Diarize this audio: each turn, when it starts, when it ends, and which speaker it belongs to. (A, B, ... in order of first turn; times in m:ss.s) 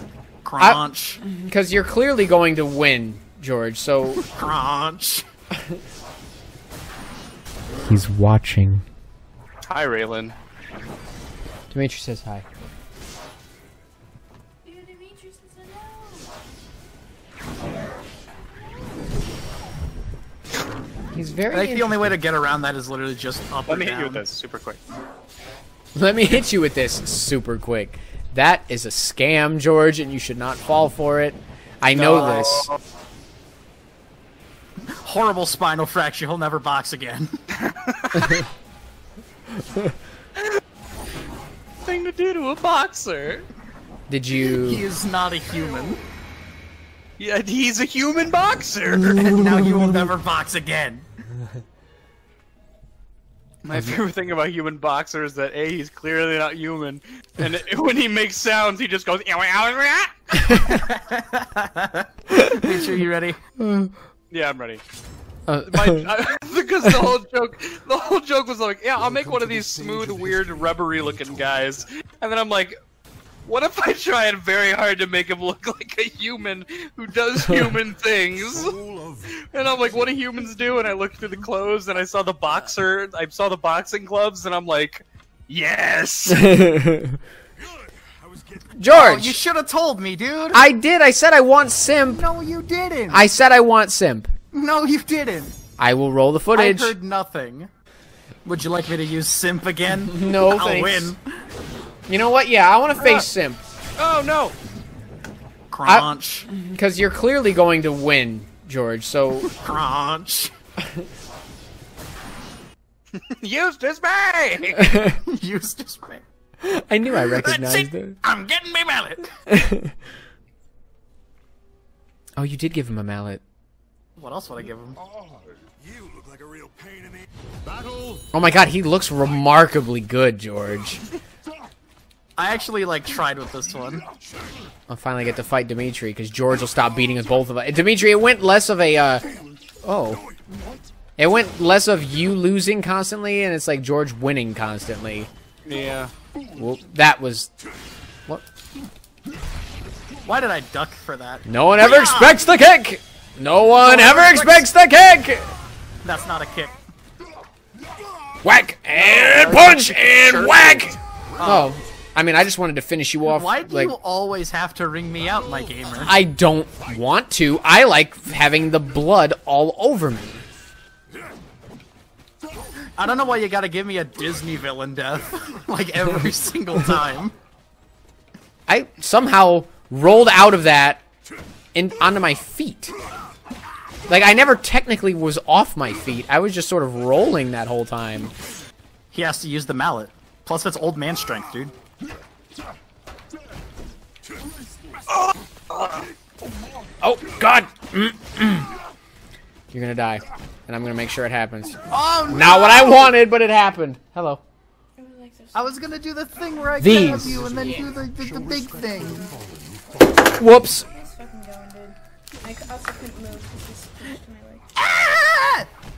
0:00.4-0:01.2 A
0:00.6-0:04.2 B
0:04.2-0:05.3 A
0:07.8-0:08.8 B
0:09.6-0:10.4 C
0:11.7-0:12.5 B
0:14.6-0:16.3 D
0:21.1-0:22.1 B
0:21.5-0:24.2 A
0:23.7-0:24.8 C
0:26.0-0:32.7 B
0:32.0-0:32.8 C
0:34.9-0:37.3 A
0:37.6-0:38.4 C
0:41.8-0:43.5 C
0:44.1-0:44.8 B
0:44.4-0:46.0 A
0:47.2-0:49.4 C
0:49.2-0:51.1 A
0:53.6-1:00.6 C
1:00.5-1:03.4 A
1:02.4-1:02.7 B
1:03.6-1:03.9 B
1:04.3-1:04.8 C
1:05.5-1:06.1 B
1:05.7-1:12.8 C
1:09.0-1:11.8 E
1:13.4-1:18.8 C
1:18.4-1:19.5 E
1:19.4-1:26.5 C
1:26.3-1:27.2 B
1:28.3-1:28.6 E
1:28.8-1:29.4 B
1:28.9-1:30.7 A
1:30.5-1:32.2 B
1:32.1-1:33.3 A
1:33.1-1:34.3 B
1:34.5-1:35.6 A
1:35.8-1:37.0 B
1:36.5-1:37.7 A
1:38.4-1:41.2 A
1:40.1-1:41.1 B
1:42.1-1:43.6 B
1:43.0-1:43.3 C
1:44.0-1:44.6 C
1:45.7-1:46.5 A
1:45.9-1:49.5 B
1:49.5-1:50.5 A
1:53.1-1:54.8 C
1:54.8-1:55.2 B
1:55.2-1:56.2 A
1:56.6-1:58.2 B
1:57.3-1:59.3 A
1:59.5-2:00.0 B
2:02.4-2:03.4 B
2:04.2-2:05.0 A
2:07.6-2:08.3 E
2:08.3-2:11.0 B
2:12.4-2:14.0 A
2:14.9-2:19.2 B
2:19.8-2:20.2 B
2:21.2-2:25.3 B
2:25.6-2:26.1 C
2:26.6-2:27.5 B
2:30.2-2:32.4 A
2:31.5-2:35.5 B
2:33.8-2:34.7 A
2:36.0-2:36.8 A
2:38.4-2:44.0 B
2:38.9-2:41.7 A
2:43.3-2:46.1 A
2:46.0-2:50.5 B
2:53.0-2:57.4 A
2:58.7-3:01.0 B
3:01.7-3:02.9 B
3:04.1-3:08.3 B
3:09.1-3:11.7 A
3:15.3-3:16.1 C
3:17.0-3:18.7 B
3:19.7-3:24.4 B
3:21.9-3:23.1 A
3:25.0-3:25.9 D
3:25.5-3:29.3 A
3:26.7-3:27.2 D
3:26.8-3:27.5 B
3:27.2-3:30.4 E
3:30.3-3:30.9 B
3:30.9-3:34.6 D
3:34.8-3:35.7 A